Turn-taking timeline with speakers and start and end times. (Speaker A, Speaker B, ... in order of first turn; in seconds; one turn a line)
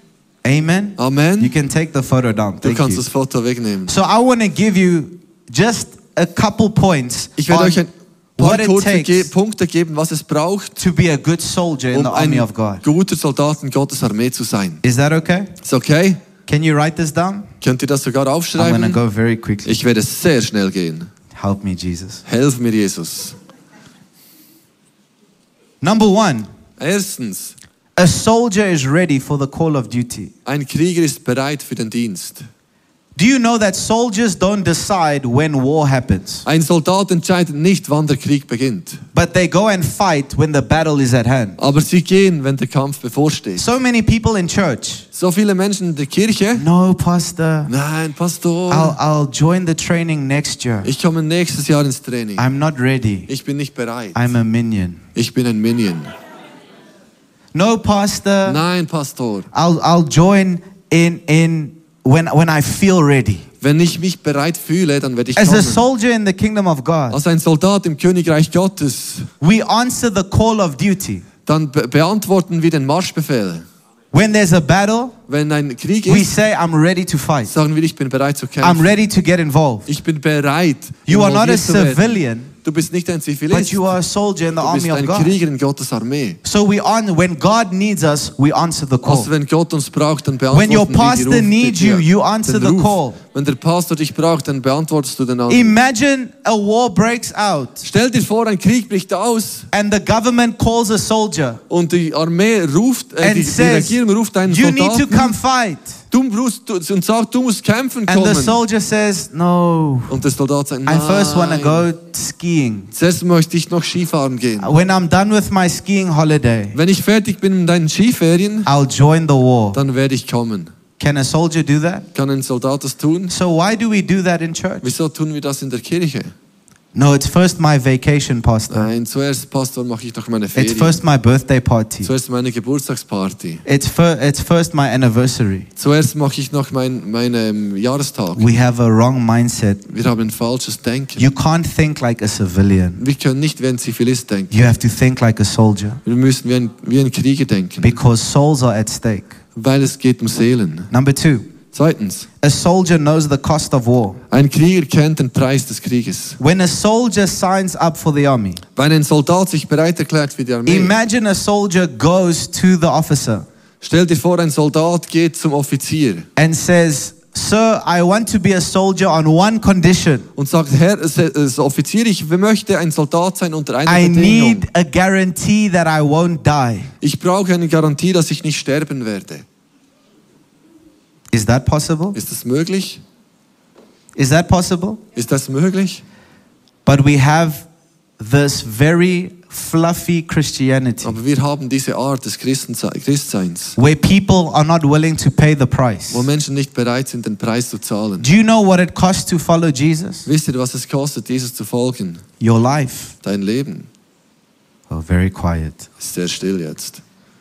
Speaker A: 0.4-3.0
Speaker B: 1.0-1.5
Speaker B: 2.6-3.9
Speaker A: 3.9-7.8
Speaker B: 7.4-10.8
Speaker A: 8.4-9.3
Speaker A: 10.8-12.8
Speaker B: 11.9-14.8
Speaker A: 14.8-15.5
Speaker B: 15.6-16.2
Speaker A: 16.4-17.5
Speaker B: 17.6-19.0
Speaker A: 18.6-19.7
Speaker B: 19.6-21.1
Speaker A: 21.3-22.2
Speaker B: 22.3-23.4
Speaker A: 25.8-26.5
Speaker B: 26.8-27.5
Speaker A: 27.9-30.3
Speaker B: 30.4-32.5
Speaker A: 33.1-36.4
Speaker B: 36.4-39.0
Speaker A: 39.1-41.6
Speaker B: 41.6-43.6
Speaker A: 43.6-45.0
Speaker B: 45.1-46.6
Speaker A: 46.5-47.7
Speaker B: 47.7-49.0
Speaker A: 48.7-50.9
Speaker B: 50.8-52.4
Speaker A: 52.4-53.3
Speaker B: 53.3-54.2
Speaker A: 54.1-55.0
Speaker B: 55.1-56.1
Speaker A: 57.5-58.6
Speaker B: 58.4-59.5
Speaker A: 59.5-63.5
Speaker B: 63.6-65.8
Speaker A: 65.3-67.2
Speaker B: 67.1-69.3
Speaker A: 69.4-71.3
Speaker B: 71.5-73.6
Speaker A: 74.1-75.2
Speaker B: 75.3-76.3
Speaker A: 76.1-77.5
Speaker B: 77.5-79.0
Speaker A: 78.6-79.9
Speaker B: 79.9-83.8
Speaker A: 81.1-82.5
Speaker A: 83.5-85.3
Speaker B: 84.6-86.4
Speaker A: 86.4-89.3
Speaker B: 89.0-95.8
Speaker A: 90.5-93.2
Speaker A: 95.5-97.8
Speaker B: 97.8-99.7
Speaker A: 99.7-101.6
Speaker B: 101.7-105.4
Speaker A: 103.2-106.0
Speaker B: 106.1-108.6
Speaker A: 108.1-110.2
Speaker B: 110.1-111.9
Speaker A: 110.8-112.9
Speaker B: 112.9-114.7
Speaker A: 114.6-116.8
Speaker B: 116.7-118.7
Speaker A: 118.7-119.8
Speaker B: 119.7-120.7
Speaker A: 121.0-122.0
Speaker B: 122.1-123.3
Speaker A: 123.3-124.9
Speaker B: 124.8-126.3
Speaker A: 126.9-128.9
Speaker B: 128.7-131.0
Speaker A: 130.5-132.1
Speaker B: 132.0-133.6
Speaker A: 133.6-135.7
Speaker B: 135.8-138.5
Speaker A: 138.3-139.8
Speaker B: 139.9-141.3
Speaker A: 141.2-143.0
Speaker B: 143.0-144.7
Speaker A: 144.5-146.0
Speaker B: 146.0-147.9
Speaker A: 147.8-149.3
Speaker B: 149.6-150.9
Speaker A: 150.9-151.5
Speaker B: 151.7-152.3
Speaker A: 152.4-154.2
Speaker B: 154.3-156.4
Speaker A: 156.4-158.6
Speaker B: 158.8-161.0
Speaker A: 160.7-163.4
Speaker B: 163.8-166.2
Speaker A: 166.3-170.3
Speaker B: 170.3-174.7
Speaker A: 173.8-176.9
Speaker B: 177.0-179.4
Speaker A: 181.3-182.2
Speaker B: 182.1-183.0
Speaker A: 184.2-185.0
Speaker B: 185.2-186.0
Speaker A: 186.8-187.6
Speaker A: 188.2-191.2
Speaker B: 191.0-193.8
Speaker A: 193.8-196.3
Speaker B: 196.1-198.3
Speaker A: 198.2-200.3
Speaker B: 200.2-202.2
Speaker A: 202.4-203.1
Speaker B: 203.2-203.9
Speaker A: 204.9-205.8
Speaker B: 206.0-207.0